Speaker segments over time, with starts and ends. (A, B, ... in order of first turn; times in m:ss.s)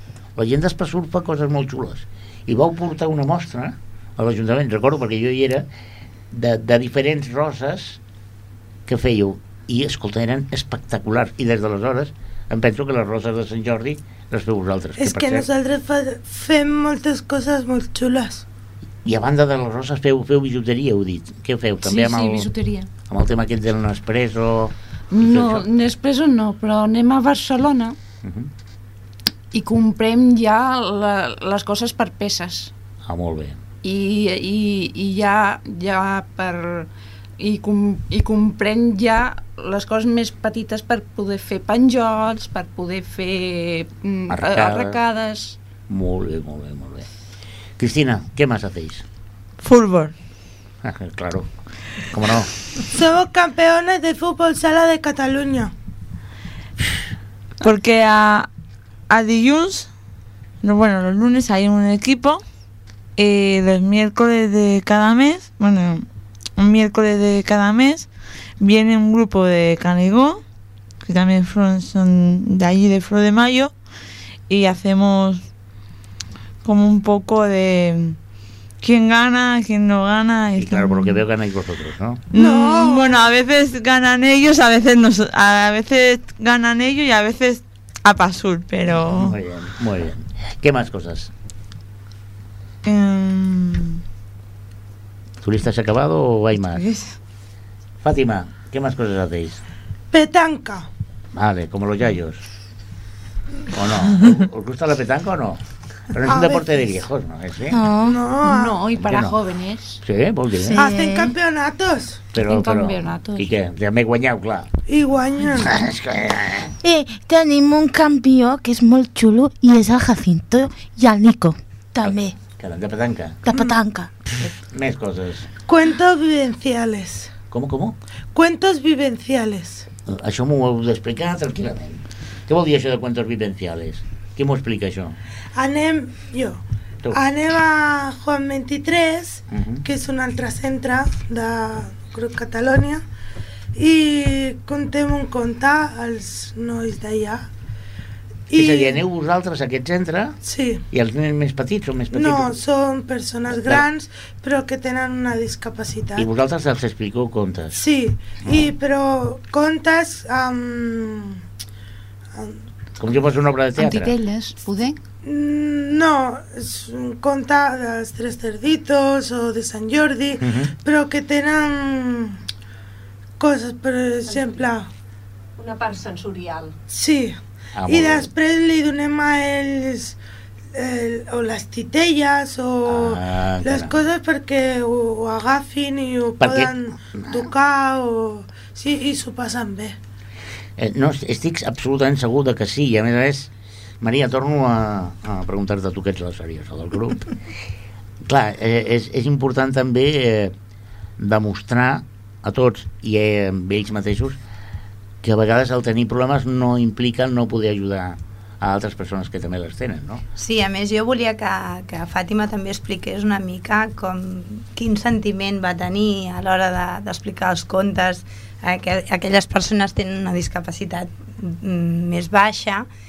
0:00.4-0:05.6 A
0:06.3-0:08.0 A
0:08.9-0:15.5 A
0:15.0-0:18.4 B
0:19.0-0:22.5 A
0:21.8-0:22.9 C
0:23.1-0:25.7 A
0:25.1-0:28.0 C
0:28.2-0:28.5 A
0:29.5-0:32.7 C
0:33.0-0:33.6 A
0:33.8-0:36.9 C
0:37.4-0:45.6 C
0:44.3-0:45.0 A
0:45.9-0:47.1 A
0:47.8-0:49.0 A
0:49.6-0:50.2 D
0:50.8-0:51.5 A
0:52.0-0:52.5 A
0:52.9-0:55.7 B
0:57.6-0:58.5 D
0:59.1-0:59.9 D
1:00.6-1:02.4 D
1:03.2-1:08.1 D
1:08.6-1:10.4 D
1:11.0-1:13.7 D
1:14.5-1:15.4 D
1:16.6-1:18.2 D
1:18.8-1:21.2 D
1:20.6-1:22.2 A
1:22.3-1:29.4 D
1:22.3-1:23.3 B
1:28.9-1:31.3 A
1:32.8-1:34.0 D
1:35.4-1:36.8 A
1:36.6-1:37.2 D
1:38.0-1:39.6 A
1:40.1-1:40.9 B
1:41.3-1:42.4 A
1:43.7-1:45.6 A
1:46.1-1:47.8 A
1:46.2-1:46.9 B
1:47.7-1:48.2 E
1:48.0-1:48.8 B
1:48.4-1:50.0 C
1:49.0-1:49.4 A
1:50.0-1:50.9 A
1:50.6-1:51.4 E
1:50.8-1:52.2 B
1:52.3-1:54.7 A
1:52.4-1:53.5 C
1:54.9-1:55.7 B
1:55.5-1:56.8 A
1:56.8-2:02.4 E
2:02.0-2:03.4 A
2:03.4-2:04.2 E
2:04.4-2:05.5 A
2:05.7-2:07.3 B
2:07.5-2:08.0 A
2:08.3-2:09.9 B
2:10.1-2:15.2 A
2:15.6-2:23.0 B
2:19.5-2:19.8 A
2:23.7-2:27.5 B
2:28.5-2:29.0 B
2:28.5-2:30.4 A
2:30.4-2:30.8 B
2:30.9-2:32.6 A
2:32.1-2:36.3 B
2:33.5-2:33.8 A
2:36.2-2:37.8 A
2:37.7-2:41.4 B
2:38.4-2:38.7 A
2:42.3-2:42.6 B
2:43.0-2:44.1 A
2:43.8-2:45.0 C
2:45.2-2:52.4 B
2:50.4-2:50.7 A
2:53.4-2:54.9 B
2:55.8-2:56.7 C
2:56.9-3:00.2 B
2:57.8-2:58.3 A
3:00.7-3:10.0 B
3:02.9-3:04.0 A
3:06.4-3:07.5 A
3:10.8-3:17.4 A
3:18.2-3:20.5 A
3:21.2-3:24.4 A
3:25.2-3:30.2 A
3:30.4-3:42.9 F